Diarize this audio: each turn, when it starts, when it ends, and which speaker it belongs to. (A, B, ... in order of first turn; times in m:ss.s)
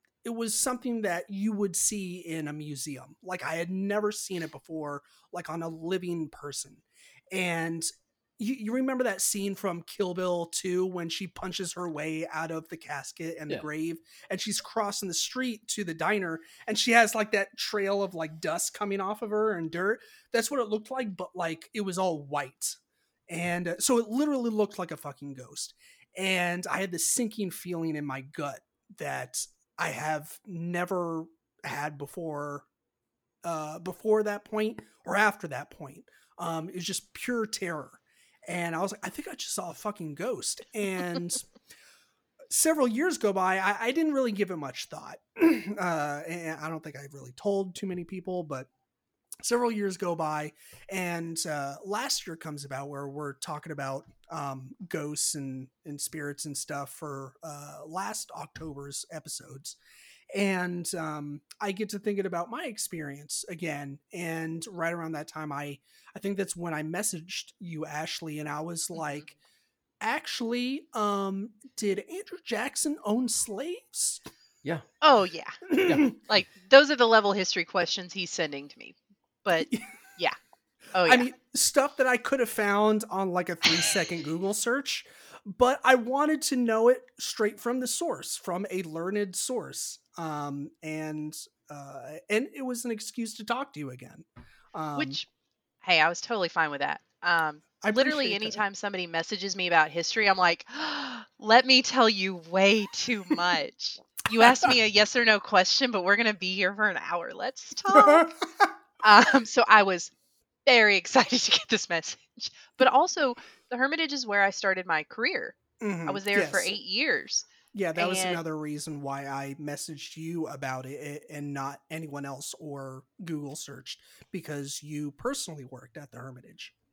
0:00.2-0:32.7 A
0:33.4-0:41.5 A
0:42.5-0:48.7 A
0:49.4-0:59.8 A
1:00.3-1:09.4 A
1:10.0-1:14.2 A
1:15.0-1:15.6 B
1:15.7-1:16.1 A
1:16.1-1:20.4 B
1:19.6-1:19.9 A
1:20.9-1:21.3 B
1:21.0-1:35.2 A
1:34.9-1:35.3 B
1:35.8-1:48.3 B
1:37.8-1:38.6 A
1:44.4-1:44.7 A
1:47.9-1:48.7 A
1:49.0-1:50.1 B
1:50.6-1:58.4 B
1:55.8-1:56.7 A
1:57.7-2:06.7 A